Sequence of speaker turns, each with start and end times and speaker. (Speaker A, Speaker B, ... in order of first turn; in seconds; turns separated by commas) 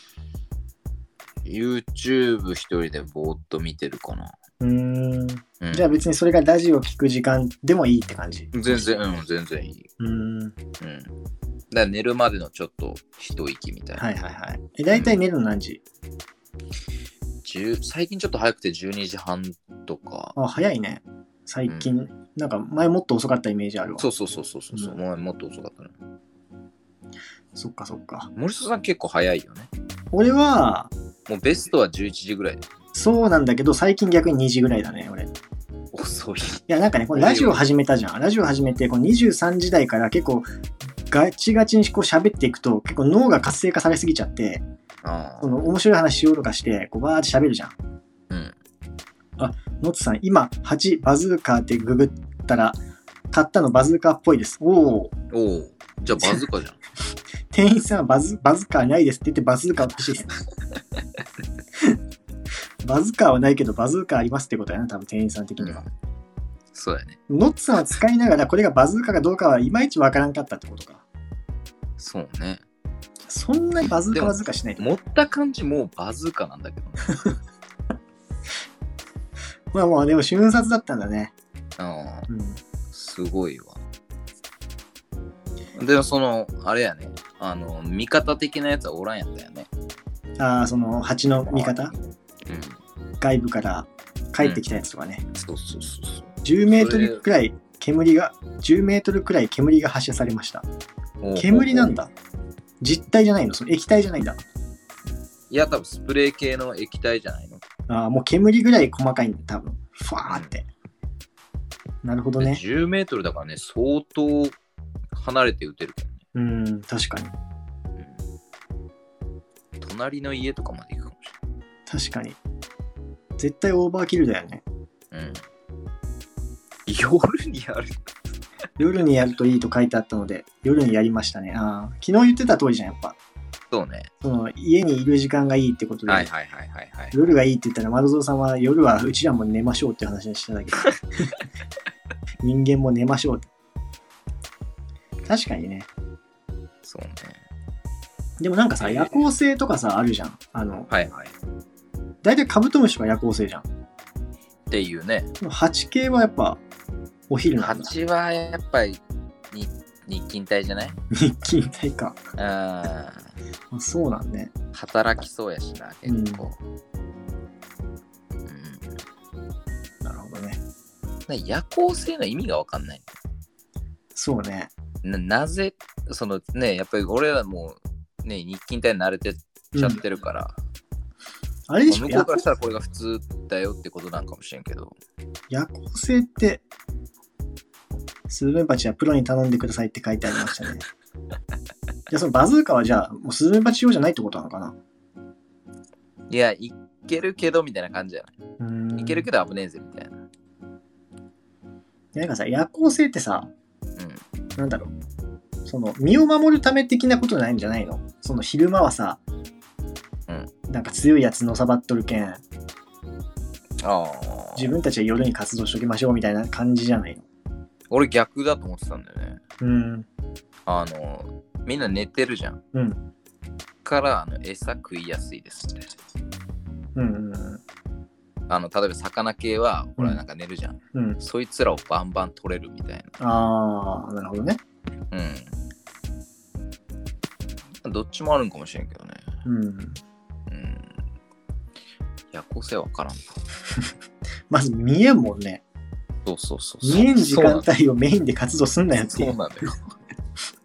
Speaker A: 1.4-4.3, Speaker B: 4.6-8.8, Speaker A: 5.6-6.0, Speaker A: 8.5-9.9, Speaker B: 10.0-10.5, Speaker A: 10.8-11.1, Speaker A: 11.7-14.1, Speaker B: 14.0-15.8, Speaker A: 17.4-20.3, Speaker B: 20.4-24.1, Speaker A: 21.7-21.9, Speaker A: 24.0-25.9, Speaker B: 27.5-28.3, Speaker A: 28.4-29.7, Speaker B: 30.1-30.9, Speaker A: 31.3-32.6, Speaker B: 32.9-35.3, Speaker A: 35.9-37.6, Speaker B: 36.7-40.5, Speaker B: 41.1-44.6, Speaker A: 45.0-45.6, Speaker B: 45.4-47.7, Speaker A: 48.3-48.5, Speaker B: 49.4-52.8, Speaker B: 53.3-55.1, Speaker A: 55.3-56.8, Speaker B: 57.5-60.4, Speaker B: 62.8-65.8, Speaker A: 65.6-65.9, Speaker A: 66.7-67.2, Speaker B: 67.3-71.0, Speaker A: 72.0-72.6, Speaker B: 73.3-74.9, Speaker A: 74.1-77.2, Speaker B: 79.7-81.3, Speaker A: 81.8-82.3, Speaker B: 82.3-82.6, Speaker A: 82.9-83.8, Speaker A: 85.7-89.7, Speaker B: 90.4-91.9, Speaker A: 91.2-92.8, Speaker B: 93.2-95.2, Speaker A: 95.3-97.2, Speaker B: 96.4-100.7, Speaker A: 101.2-102.0, Speaker B: 101.3-102.1, Speaker B: 102.8-104.4, Speaker A: 105.5-107.6, Speaker B: 107.9-110.7, Speaker A: 110.3-110.5, Speaker B: 112.0-112.6, Speaker A: 112.4-114.5, Speaker A: 115.1-116.2, Speaker B: 116.3-117.3, Speaker A: 119.8-121.4, Speaker B: 121.9-122.4, Speaker B: 123.4-124.6, Speaker A: 125.1-125.4, Speaker A: 126.9-128.0, Speaker B: 128.8-133.2, Speaker A: 133.7-134.1, Speaker B: 134.2-136.3, Speaker A: 136.1-137.3, Speaker B: 137.1-141.3, Speaker B: 142.4-143.5, Speaker B: 145.2-145.9, Speaker A: 146.8-147.4, Speaker B: 148.4-150.9, Speaker A: 148.8-149.2, Speaker A: 150.9-151.3, Speaker B: 152.2-153.7, Speaker A: 154.7-155.3, Speaker B: 155.4-156.6, Speaker B: 157.3-157.9, Speaker A: 157.6-159.0, Speaker A: 159.5-161.0, Speaker B: 161.1-162.2, Speaker A: 162.3-163.3, Speaker B: 163.7-164.5, Speaker A: 164.7-166.6, Speaker B: 166.1-166.4, Speaker A: 168.4-168.9, Speaker B: 170.0-170.6, Speaker A: 171.3-173.1, Speaker B: 174.1-174.7, Speaker A: 175.0-180.5, Speaker B: 179.7-180.0, Speaker B: 181.7-182.4, Speaker A: 181.8-184.9, Speaker B: 185.5-186.6, Speaker B: 188.3-190.8, Speaker B: 192.1-194.8, Speaker A: 196.3-198.3, Speaker B: 198.6-199.2, Speaker A: 198.9-200.1, Speaker B: 202.1-203.5, Speaker B: 204.6-204.9, Speaker B: 205.7-209.2, Speaker B: 210.7-212.4, Speaker A: 213.8-214.7, Speaker B: 214.6-217.2, Speaker A: 217.9-219.4, Speaker B: 219.6-220.1, Speaker A: 220.7-222.6, Speaker B: 222.7-223.0, Speaker A: 223.8-225.9, Speaker B: 226.9-227.6, Speaker A: 228.5-233.2, Speaker B: 230.9-231.2, Speaker B: 233.2-234.6, Speaker A: 235.1-235.5, Speaker A: 237.8-239.3, Speaker B: 239.4-240.0, Speaker A: 240.5-240.9, Speaker A: 242.3-243.4, Speaker B: 244.5-245.6, Speaker A: 246.2-247.7, Speaker B: 246.8-249.3, Speaker A: 249.1-249.9